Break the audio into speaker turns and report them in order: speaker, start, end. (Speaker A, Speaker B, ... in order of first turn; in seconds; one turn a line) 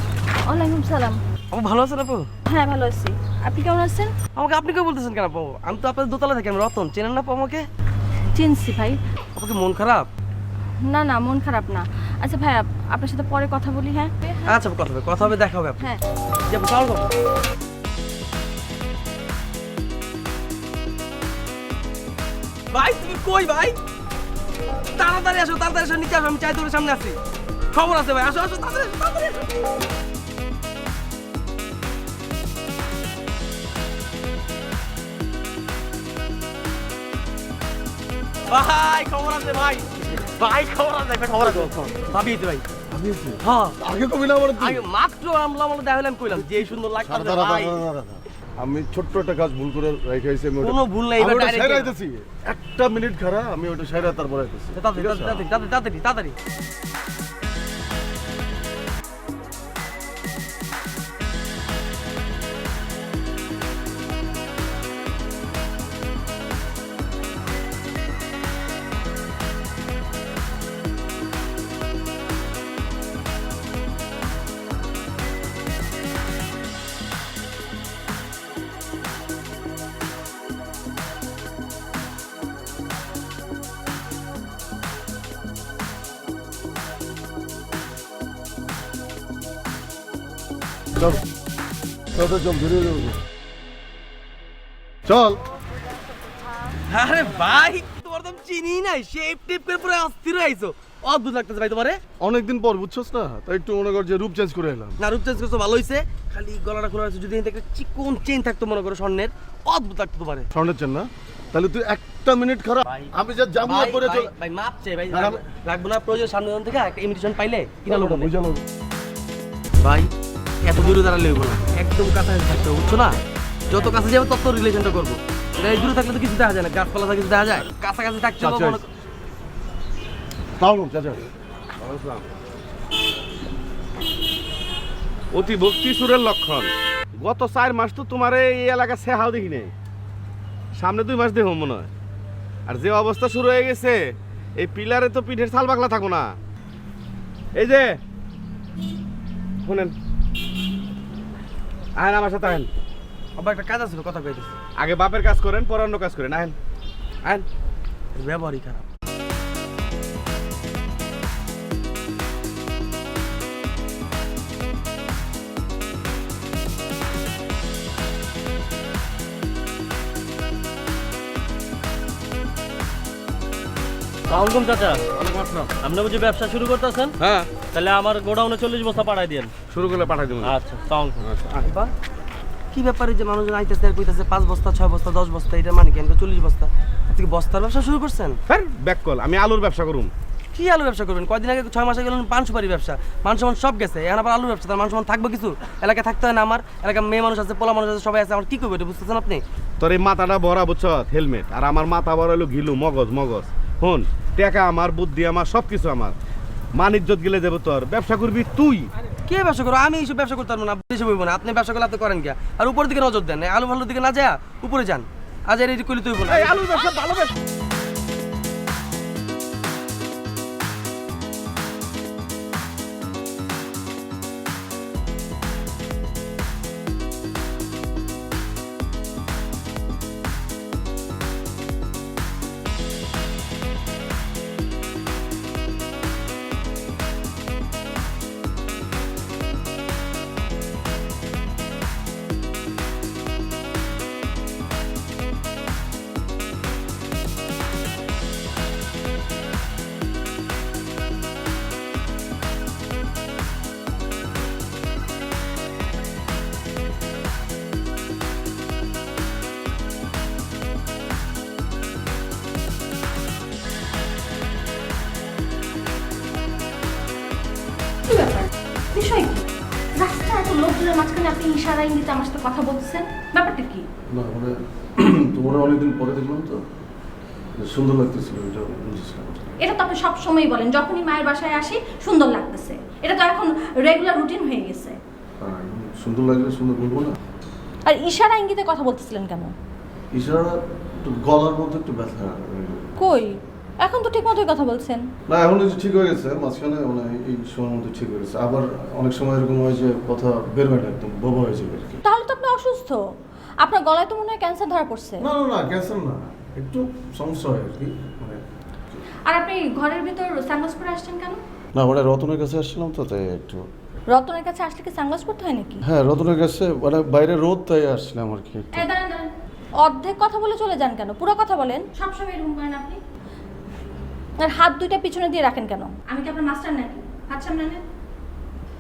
Speaker A: 0.4-1.2
Speaker B: 1.5-2.3
Speaker A: 2.5-4.1
Speaker B: 4.3-7.7
Speaker A: 8.3-9.0
Speaker B: 9.3-10.1
Speaker A: 10.8-14.6
Speaker B: 14.5-17.1
Speaker B: 22.7-23.8
Speaker B: 24.9-27.2
Speaker B: 27.7-29.5
Speaker B: 38.5-42.7
Speaker C: 42.9-44.9
Speaker B: 43.4-43.8
Speaker B: 44.5-47.9
Speaker C: 46.5-55.5
Speaker B: 50.6-51.9
Speaker B: 54.8-56.4
Speaker C: 92.1-93.2
Speaker C: 95.0-95.4
Speaker B: 96.9-102.0
Speaker C: 102.2-105.0
Speaker B: 105.0-110.5
Speaker C: 110.5-114.3
Speaker B: 113.6-118.3
Speaker C: 115.1-115.4
Speaker C: 117.8-118.6
Speaker B: 119.8-120.1
Speaker B: 120.6-123.2
Speaker B: 123.7-128.9
Speaker C: 128.4-128.8
Speaker C: 130.6-131.2
Speaker D: 131.8-132.3
Speaker D: 135.3-139.7
Speaker D: 140.8-141.9
Speaker D: 142.7-146.3
Speaker D: 147.5-148.0
Speaker D: 149.6-149.9
Speaker D: 151.9-152.7
Speaker B: 153.4-154.5
Speaker D: 154.8-156.6
Speaker B: 158.1-158.8
Speaker E: 174.3-175.0
Speaker D: 175.2-175.7
Speaker E: 175.8-179.5
Speaker D: 177.2-177.5
Speaker D: 179.7-180.5
Speaker E: 180.4-181.2
Speaker D: 181.2-181.7
Speaker B: 181.6-181.9
Speaker B: 182.7-188.4
Speaker D: 188.5-190.1
Speaker B: 190.5-199.4
Speaker D: 199.8-206.1
Speaker D: 206.8-208.9
Speaker B: 209.3-216.6
Speaker D: 216.2-217.3
Speaker A: 268.1-273.8
Speaker C: 274.1-276.6
Speaker C: 277.6-279.5
Speaker A: 279.6-285.0
Speaker C: 285.4-287.1
Speaker A: 287.8-289.5
Speaker C: 290.1-292.9
Speaker A: 293.0-295.1
Speaker C: 295.3-302.0
Speaker A: 302.0-303.0
Speaker A: 303.6-305.2
Speaker C: 305.2-308.4
Speaker A: 309.2-311.4
Speaker C: 311.8-313.7
Speaker A: 314.1-315.8
Speaker C: 315.8-318.9
Speaker A: 318.7-319.3
Speaker A: 319.8-323.0
Speaker A: 324.4-327.8